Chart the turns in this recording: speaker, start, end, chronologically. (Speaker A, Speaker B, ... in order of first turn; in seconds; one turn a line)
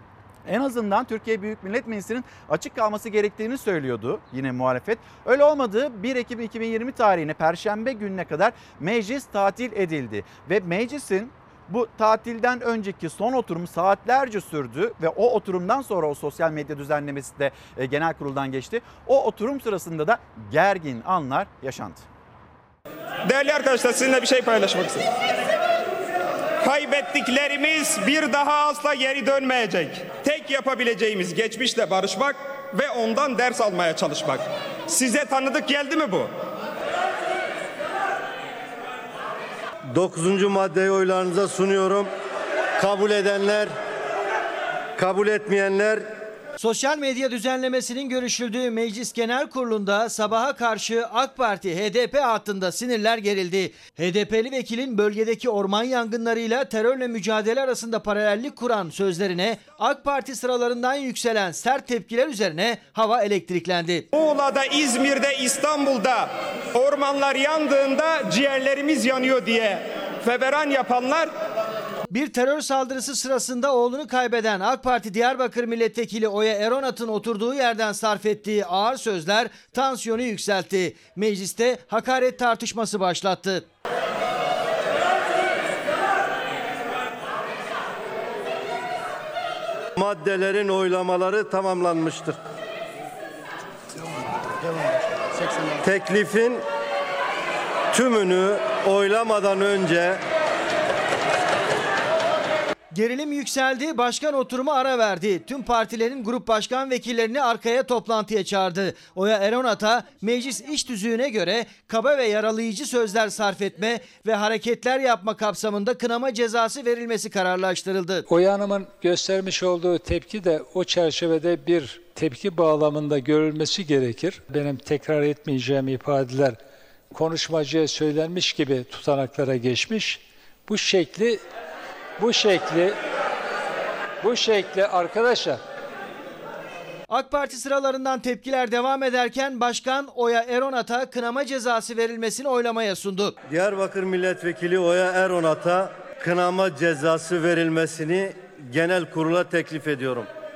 Speaker A: 0.4-22.1
Speaker B: 23.2-25.1
Speaker B: 26.6-36.3
Speaker C: 39.9-42.1
Speaker C: 42.8-43.7
Speaker C: 45.0-46.1
Speaker D: 46.6-64.1
Speaker B: 64.1-71.3
Speaker D: 72.1-83.7
Speaker C: 90.0-92.4
Speaker C: 95.7-96.6
Speaker C: 97.9-100.2
Speaker D: 102.9-118.2
Speaker E: 118.3-126.6
Speaker E: 127.1-131.4
Speaker E: 132.2-133.0
Speaker E: 134.2-135.6
Speaker D: 137.1-143.3
Speaker C: 143.4-150.3